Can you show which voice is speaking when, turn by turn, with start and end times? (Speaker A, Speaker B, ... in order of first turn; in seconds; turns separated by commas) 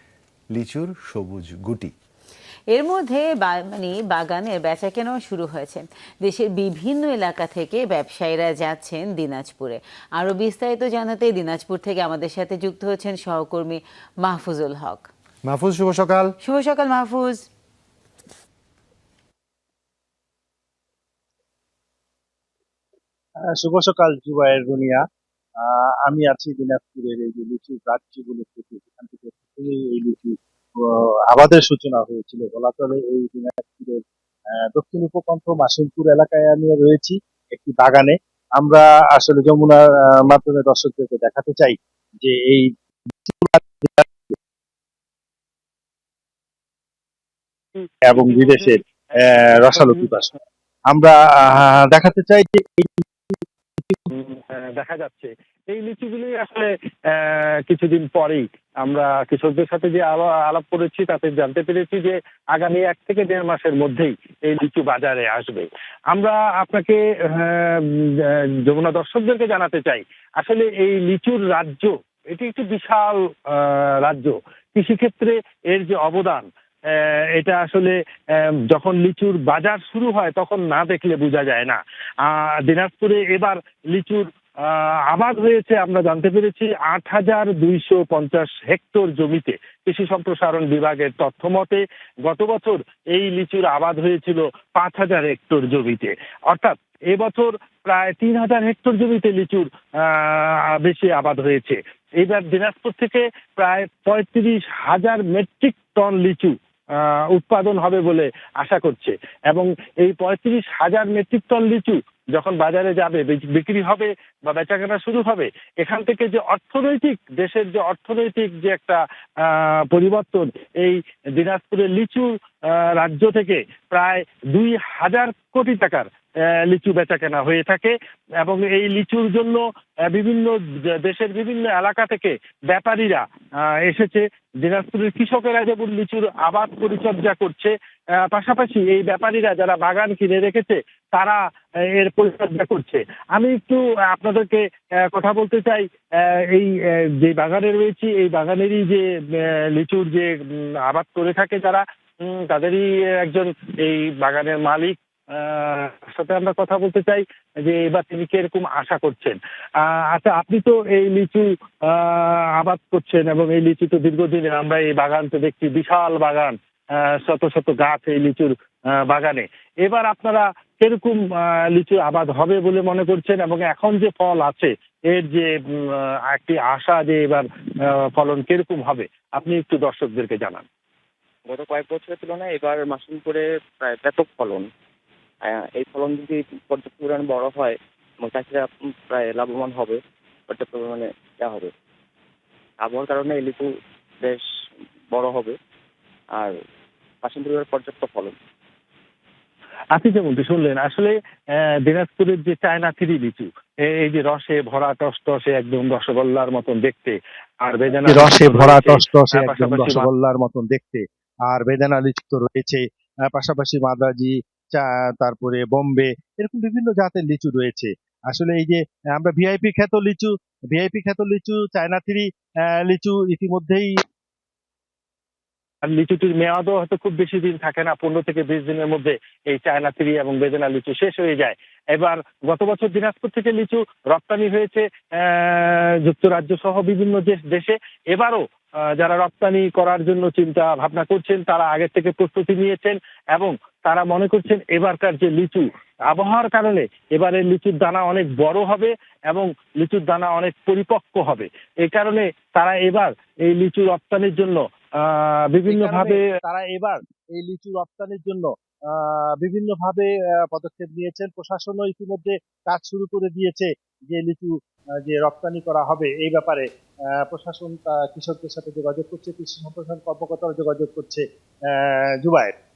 Speaker A: 0.5-1.9, Speaker B: 2.7-15.1, Speaker A: 15.5-16.3, Speaker B: 16.4-17.5, Speaker C: 23.5-25.0, Speaker C: 25.6-34.0, Speaker C: 34.6-42.7, Speaker C: 43.2-44.4, Speaker D: 47.7-50.1, Speaker C: 48.1-50.3, Speaker C: 50.9-54.1, Speaker D: 54.1-77.9, Speaker D: 78.7-126.1, Speaker D: 126.7-137.7, Speaker D: 138.2-141.4, Speaker D: 142.0-177.4, Speaker D: 178.1-180.7, Speaker E: 181.5-184.7, Speaker E: 185.4-191.7, Speaker E: 192.8-194.5, Speaker E: 195.1-195.6, Speaker E: 196.3-196.6, Speaker E: 197.2-198.4, Speaker D: 199.9-210.1, Speaker C: 207.9-224.0, Speaker D: 225.8-238.4, Speaker D: 239.0-256.2, Speaker C: 255.7-266.7, Speaker C: 267.2-272.6